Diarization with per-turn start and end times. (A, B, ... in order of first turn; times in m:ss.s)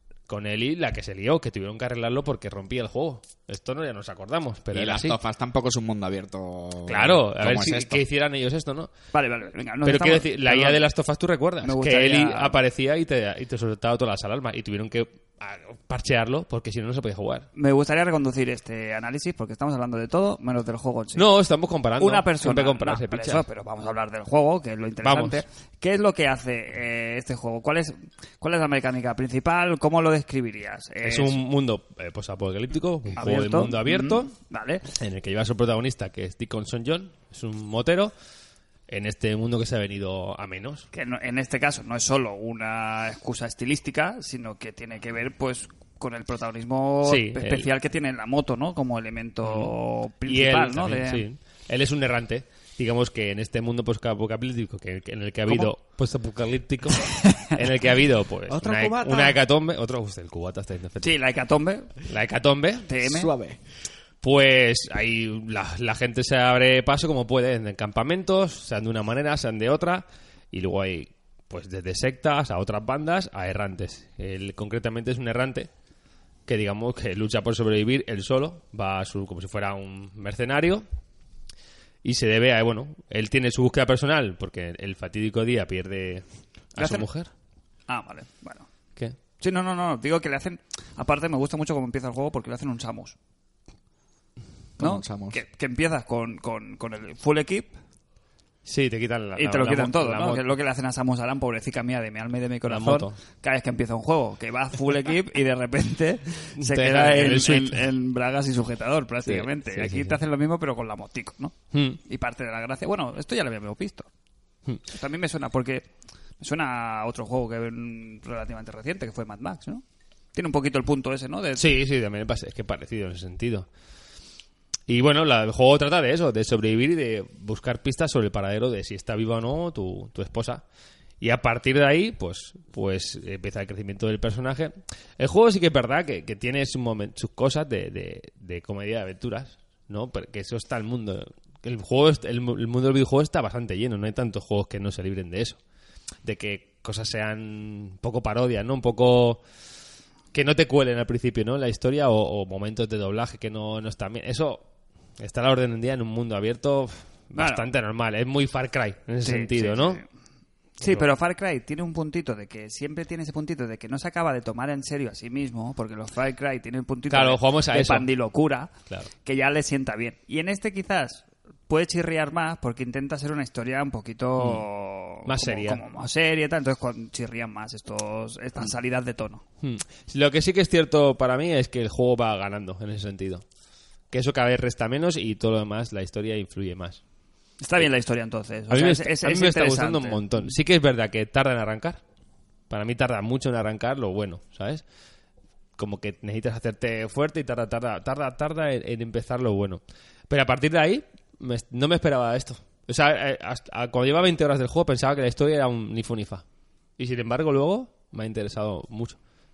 0:00.3-0:05.2 A
0:04.7-0:08.0 B
0:06.9-0:08.9 A
0:09.1-0:10.8 C
0:09.8-0:17.5 A
0:11.6-0:12.6 C
0:17.5-0:21.3 C
0:21.2-0:23.4 A
0:22.0-0:31.4 C
0:25.0-0:25.4 A
0:31.0-0:34.3 A
0:33.2-0:34.9 C
0:34.9-0:38.1 A
0:38.9-0:40.9 A
0:40.9-0:51.2 C
0:47.0-0:47.7 A
0:49.4-0:49.7 A
0:50.2-1:01.1 A
0:55.5-0:55.7 C
0:57.1-0:57.6 C
0:58.5-0:59.4 B
1:01.0-1:01.9 C
1:02.0-1:02.9 A
1:02.8-1:03.3 C
1:03.0-1:03.6 B
1:04.2-1:15.7 A
1:16.4-1:20.8 A
1:22.0-1:27.3 A
1:26.8-1:27.1 C
1:27.9-1:28.7 C
1:29.4-1:33.1 C
1:34.8-1:35.4 B
1:34.8-1:37.7 C
1:38.6-1:40.4 A
1:39.4-1:54.1 C
1:42.7-1:43.2 A
1:46.6-1:47.8 A
1:49.3-1:50.2 A
1:51.7-1:52.0 A
1:54.9-1:55.9 C
1:56.4-1:59.8 C
2:00.3-2:01.6 C
2:01.6-2:03.7 A
2:04.9-2:10.6 A
2:11.2-2:25.6 A
2:26.2-2:29.4 A
2:30.3-2:34.6 A
2:35.2-2:40.0 A
2:37.3-2:37.7 C
2:39.2-2:40.0 C
2:40.8-2:48.7 C
2:47.1-2:48.1 A
2:49.2-2:59.4 C
2:54.4-2:54.6 A
2:55.2-2:55.8 A
2:59.6-3:03.4 A
3:04.1-3:07.0 A
3:07.6-3:10.4 C
3:08.7-3:12.0 A
3:12.7-3:14.8 A
3:15.8-3:26.4 A
3:27.0-3:29.2 A